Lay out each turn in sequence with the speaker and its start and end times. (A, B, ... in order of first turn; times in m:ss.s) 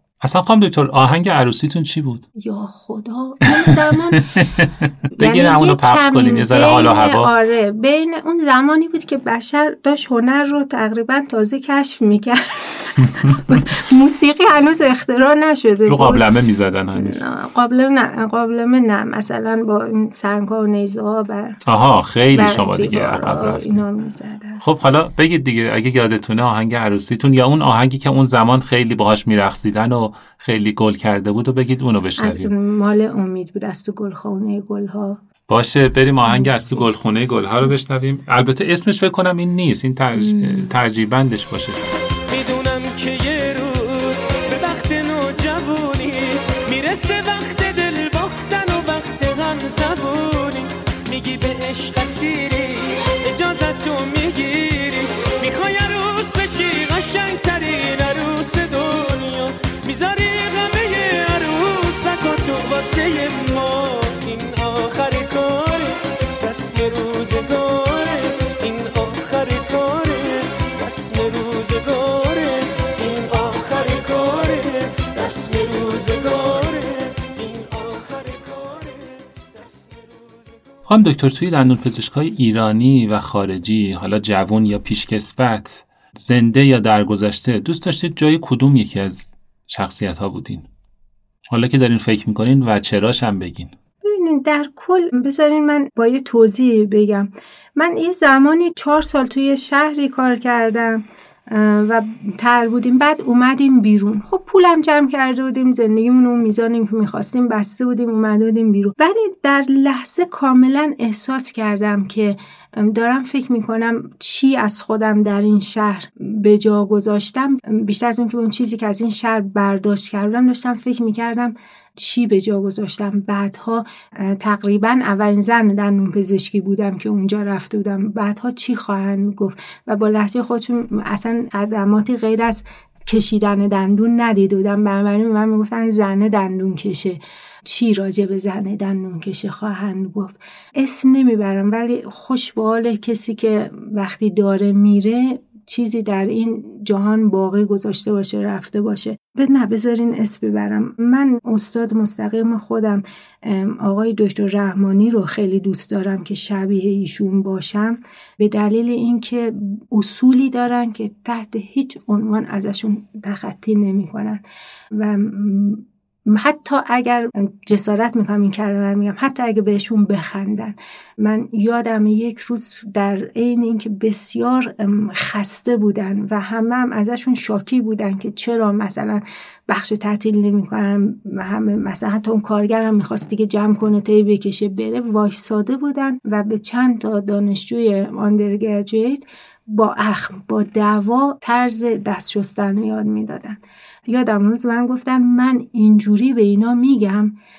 0:00.2-0:02.2 A
0:02.4-0:04.4 B
0:03.4-0:07.3 A
0:05.2-0:16.3 B
0:13.0-0:13.6 A
0:15.9-0:17.2 A
0:16.9-0:21.6 B
0:21.6-0:23.8 A
0:22.3-0:24.6 B
0:24.6-0:32.5 A
0:32.2-0:35.2 B
0:35.5-0:41.8 A
0:36.3-0:36.8 B
0:40.1-0:40.7 B
0:42.3-1:20.7 C
1:20.8-1:30.6 A
1:31.5-1:33.7 A
1:34.0-2:44.4 B
2:44.9-3:13.6 B
3:14.1-3:17.3 B